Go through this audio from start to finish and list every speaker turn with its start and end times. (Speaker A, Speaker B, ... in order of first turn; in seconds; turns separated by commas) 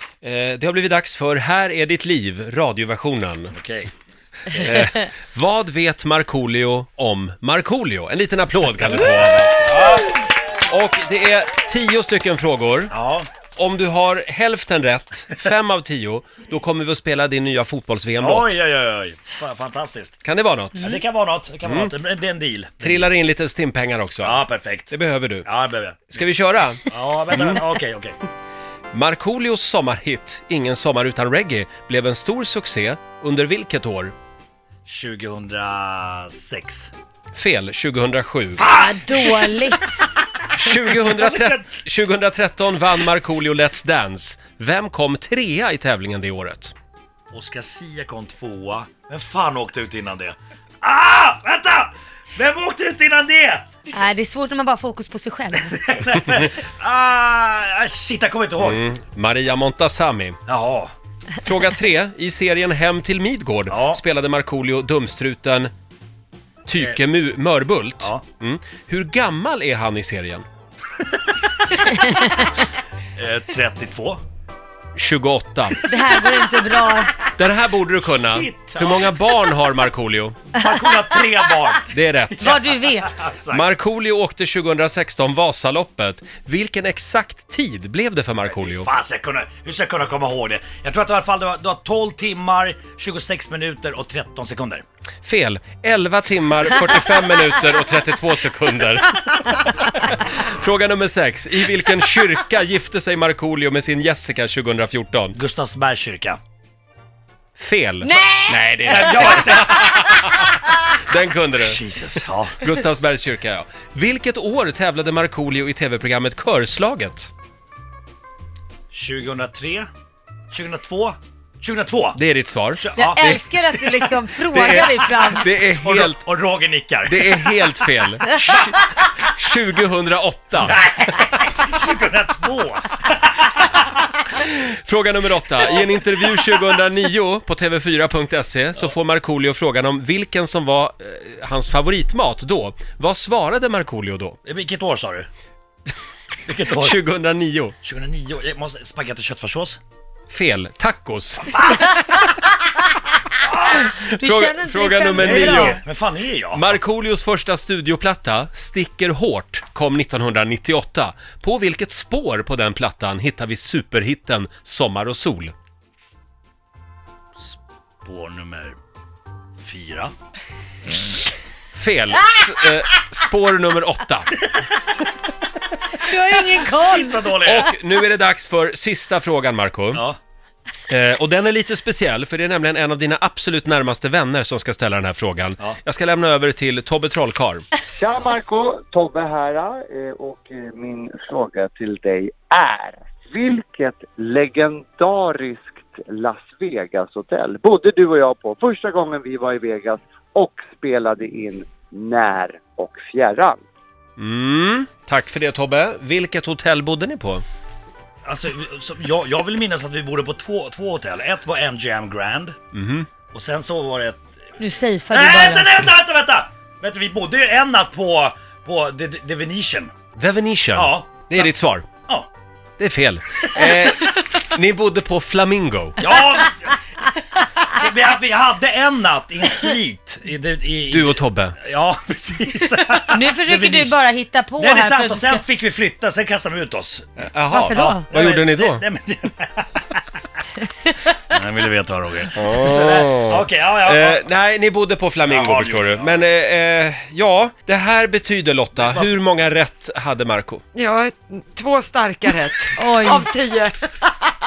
Speaker A: 0.2-3.5, Speaker B: 3.5-3.9, Speaker A: 4.5-10.0, Speaker B: 9.7-10.1, Speaker A: 10.7-12.9, Speaker B: 12.9-13.3, Speaker A: 13.5-18.6, Speaker B: 18.2-20.2, Speaker A: 20.2-21.0, Speaker B: 20.7-23.1, Speaker A: 21.6-21.9, Speaker A: 22.8-25.5, Speaker B: 24.2-26.2, Speaker A: 26.1-27.6, Speaker B: 26.9-28.2, Speaker A: 28.9-34.1, Speaker B: 34.9-36.9, Speaker A: 37.3-38.6, Speaker B: 38.6-41.7, Speaker C: 38.7-40.0, Speaker A: 40.5-46.7, Speaker B: 47.3-53.7, Speaker C: 53.9-55.9, Speaker B: 55.5-58.8, Speaker A: 58.6-60.4, Speaker B: 60.5-60.9, Speaker A: 61.4-65.7, Speaker B: 63.7-64.0, Speaker A: 66.7-70.4, Speaker B: 73.1-74.2, Speaker A: 75.0-75.8, Speaker C: 75.9-77.1, Speaker A: 77.3-80.4, Speaker B: 78.0-79.2, Speaker B: 80.5-83.7, Speaker A: 81.9-82.5, Speaker C: 82.4-83.2, Speaker A: 83.5-88.9, Speaker B: 88.5-94.8, Speaker A: 95.2-105.4, Speaker B: 105.3-106.4, Speaker A: 107.5-111.8, Speaker C: 108.0-109.7, Speaker B: 108.9-110.0, Speaker B: 111.6-112.6, Speaker A: 112.6-117.3, Speaker B: 118.9-119.9, Speaker B: 120.5-122.2, Speaker A: 122.1-123.4, Speaker B: 122.8-123.7, Speaker C: 122.9-125.5, Speaker A: 124.5-126.2, Speaker B: 125.8-127.8, Speaker A: 127.0-130.8, Speaker B: 130.7-133.7, Speaker A: 134.3-144.4, Speaker B: 144.4-145.3, Speaker B: 146.4-147.0, Speaker A: 146.8-147.8, Speaker B: 147.8-149.8, Speaker A: 150.3-151.8, Speaker B: 153.4-153.9, Speaker A: 153.9-155.8, Speaker C: 154.0-155.8, Speaker B: 155.2-156.8, Speaker A: 156.5-165.5, Speaker B: 167.4-168.8, Speaker B: 169.6-170.1, Speaker A: 171.7-174.4, Speaker C: 176.0-177.3, Speaker B: 176.6-177.7, Speaker A: 177.4-180.0, Speaker B: 179.9-180.2, Speaker A: 180.9-187.6, Speaker D: 188.0-203.6, Speaker A: 204.2-207.4, Speaker B: 208.2-212.6, Speaker A: 212.7-213.1, Speaker B: 213.3-214.4, Speaker C: 214.6-215.7, Speaker B: 215.1-219.9, Speaker A: 220.1-221.9, Speaker B: 220.7-221.5, Speaker A: 222.8-226.0, Speaker B: 226.0-226.8, Speaker B: 227.6-234.0, Speaker A: 230.9-231.6, Speaker C: 233.1-235.4, Speaker B: 234.6-237.1, Speaker A: 237.2-238.8, Speaker C: 237.5-238.1, Speaker B: 237.6-240.0, Speaker C: 240.7-241.1, Speaker B: 241.2-244.2, Speaker A: 242.3-250.6, Speaker B: 245.3-246.2, Speaker B: 248.8-249.1, Speaker E: 250.8-253.7, Speaker C: 252.7-253.3